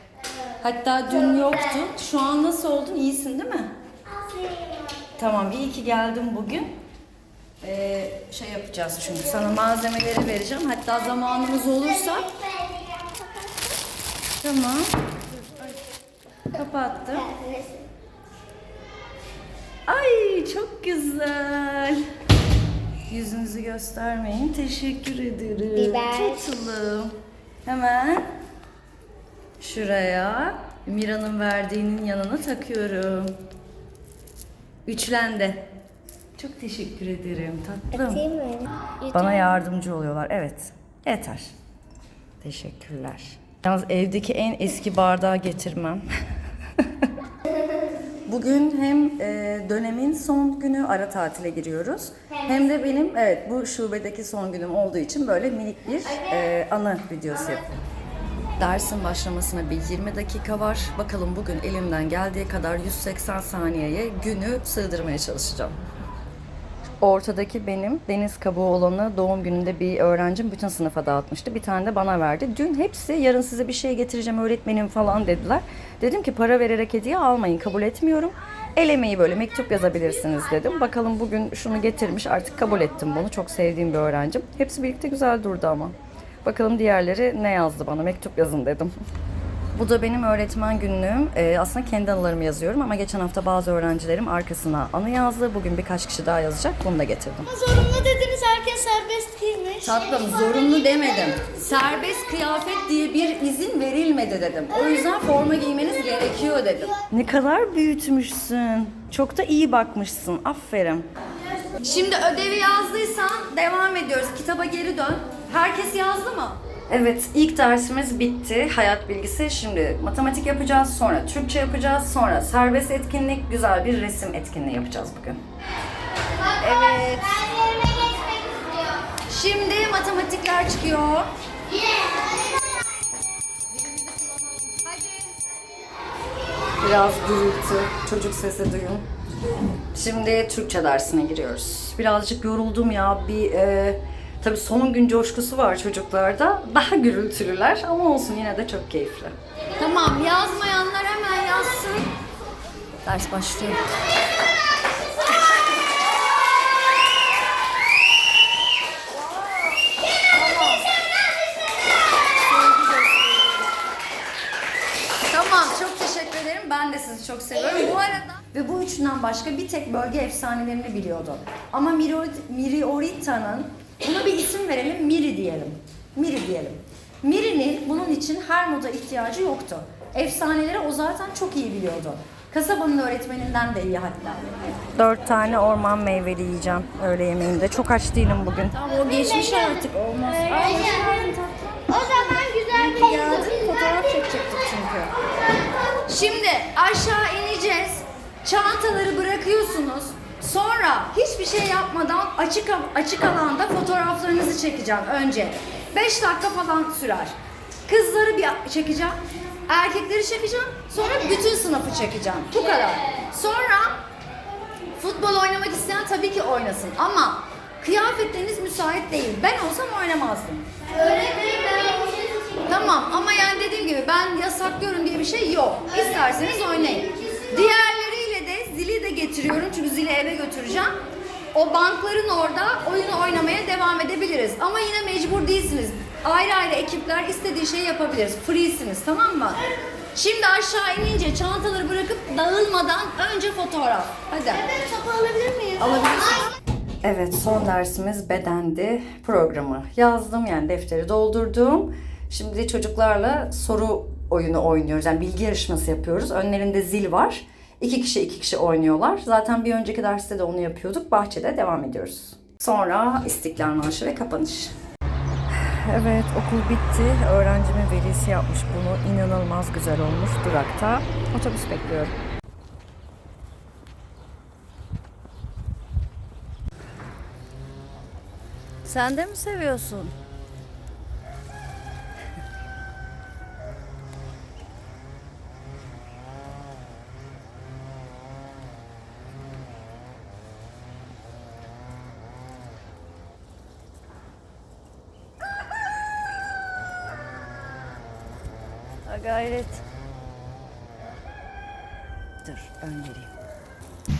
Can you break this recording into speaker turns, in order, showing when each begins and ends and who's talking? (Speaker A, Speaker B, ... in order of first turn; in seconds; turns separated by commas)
Speaker A: 0.6-3.7, Speaker B: 4.3-5.0, Speaker A: 5.1-6.7, Speaker A: 7.6-12.4, Speaker B: 12.3-13.6, Speaker A: 14.4-14.9, Speaker A: 16.5-17.4, Speaker B: 17.4-17.8, Speaker A: 19.9-22.0, Speaker A: 23.1-28.3, Speaker B: 26.0-26.3, Speaker A: 29.6-33.4, Speaker A: 34.9-35.6, Speaker A: 36.4-41.5, Speaker B: 38.3-38.7, Speaker A: 42.4-46.0, Speaker A: 46.8-47.1, Speaker A: 48.3-57.7, Speaker A: 58.6-65.8, Speaker A: 67.0-88.9, Speaker A: 89.8-97.5, Speaker B: 97.5-100.2, Speaker A: 99.8-111.1, Speaker A: 111.7-125.4, Speaker A: 126.5-127.8, Speaker A: 129.3-131.3, Speaker A: 133.7-135.4, Speaker A: 136.8-139.1, Speaker A: 139.9-152.1, Speaker A: 153.0-153.8, Speaker A: 159.2-159.8, Speaker A: 160.3-160.9, Speaker A: 162.5-163.6, Speaker A: 165.3-195.1, Speaker B: 191.9-193.6, Speaker A: 196.1-209.2, Speaker A: 209.7-214.0, Speaker A: 215.0-220.7, Speaker B: 221.0-222.4, Speaker A: 222.6-230.9, Speaker A: 231.5-244.8, Speaker B: 244.7-245.9, Speaker A: 245.8-264.7, Speaker A: 265.6-272.1, Speaker A: 278.9-280.1, Speaker A: 299.1-299.8, Speaker A: 302.4-303.3